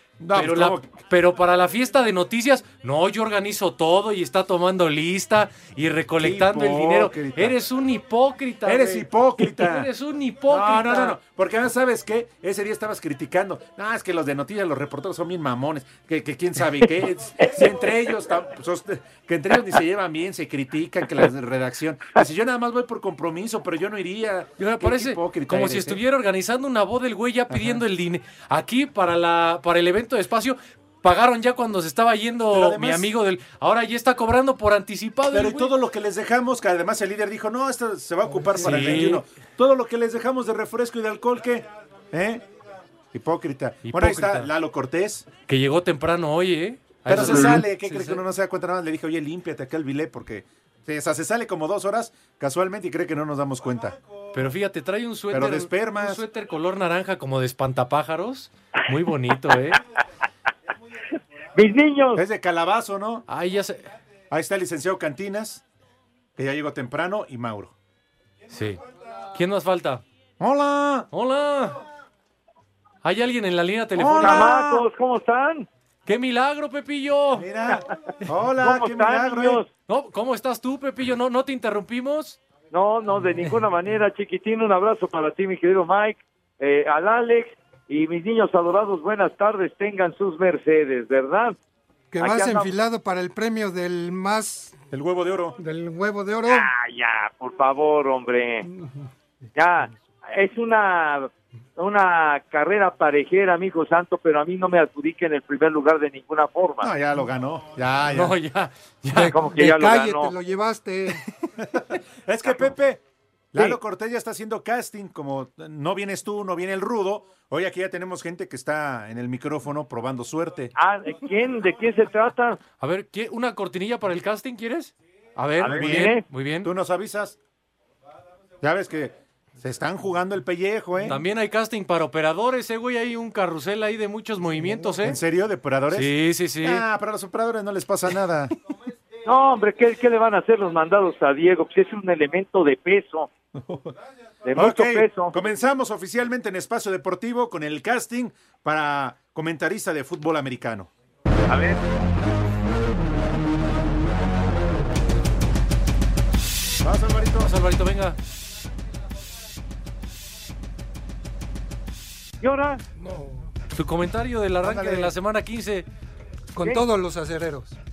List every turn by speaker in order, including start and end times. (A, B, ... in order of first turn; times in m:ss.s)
0:00.2-0:00.9 A
0:00.3-0:11.2 B
0:06.2-0:07.6 A
0:08.6-0:09.9 A
0:10.5-0:26.0 A
0:24.6-0:35.7 B
0:27.5-0:27.8 A
0:32.5-0:33.1 A
0:35.3-0:42.4 A
0:38.6-0:39.2 B
0:43.1-0:45.3 A
0:43.8-0:44.5 B
0:45.4-0:48.2 B
0:47.0-0:53.9 A
0:54.3-0:59.8 B
0:55.3-0:56.2 A
1:01.6-1:02.2 C
1:02.1-1:03.2 A
1:03.3-1:03.8 B
1:04.3-1:05.6 A
1:06.4-1:07.7 A
1:08.5-1:08.8 B
1:09.3-1:10.0 B
1:10.4-1:11.1 A
1:11.1-1:11.8 B
1:13.0-1:14.7 B
1:14.0-1:14.8 A
1:14.2-1:15.7 C
1:16.0-1:17.5 B
1:17.4-1:19.6 A
1:18.6-1:19.7 C
1:19.9-1:22.4 B
1:22.7-1:31.6 C
1:32.1-1:34.7 D
1:32.2-1:32.7 C
1:34.9-1:35.6 A
1:35.6-1:36.7 D
1:36.4-1:38.7 C
1:39.5-1:46.9 C
1:46.8-1:48.3 A
1:48.1-1:49.4 B
1:49.1-1:50.3 C
1:49.2-1:51.2 D
1:52.2-1:53.0 A
1:53.5-2:00.7 A
2:00.8-2:02.6 C
2:02.8-2:06.7 B
2:05.6-2:06.2 C
2:05.6-2:07.4 A
2:08.6-2:11.2 A
2:11.1-2:15.2 B
2:15.0-2:18.5 A
2:15.9-2:16.8 B
2:19.2-2:23.3 C
2:23.5-2:23.9 A
2:24.4-2:25.4 C
2:24.5-2:30.9 A
2:31.5-2:31.8 C
2:36.8-2:37.5 A
2:37.4-2:38.2 B
2:42.4-2:42.8 C
2:43.0-2:43.5 D
2:43.7-2:45.8 B
2:44.6-2:45.1 A
2:46.5-2:47.8 D